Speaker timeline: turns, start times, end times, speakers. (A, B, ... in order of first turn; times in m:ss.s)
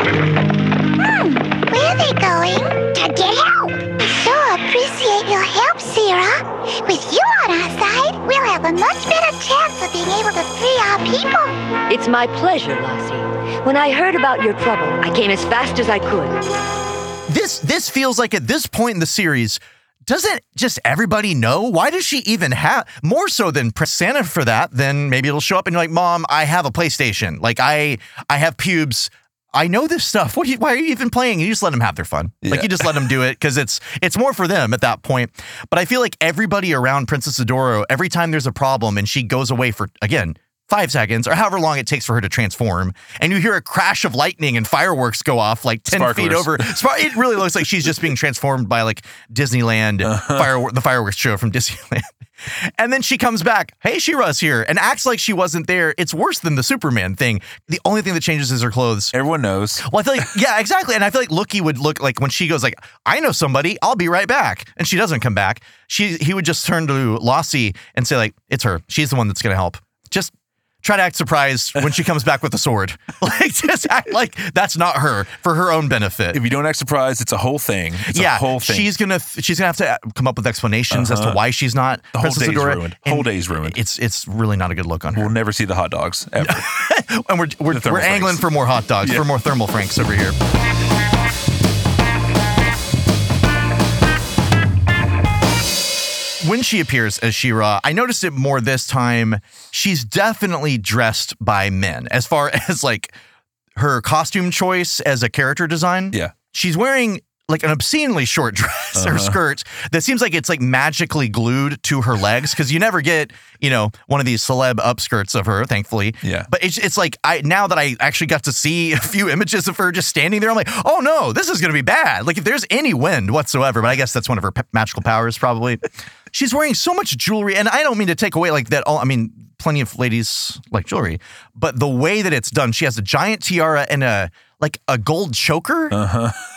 0:01.0-0:11.6 A
0:11.9-0:16.4 B
0:17.3-0:59.2 C
0:32.4-0:33.1 D
0:45.9-0:46.8 D
0:50.0-0:50.5 D
0:59.1-0:59.8 D
0:59.8-1:10.3 C
1:10.8-1:16.4 C
1:16.3-1:18.9 D
1:18.1-1:25.3 C
1:20.9-1:21.4 D
1:22.1-1:23.8 D
1:25.2-1:26.7 D
1:26.4-1:30.4 C
1:27.7-1:28.5 D
1:29.0-1:29.3 D
1:36.4-1:43.1 C
1:43.8-2:16.0 C
1:49.0-1:49.4 D
1:56.2-1:56.5 D
2:15.9-2:16.4 D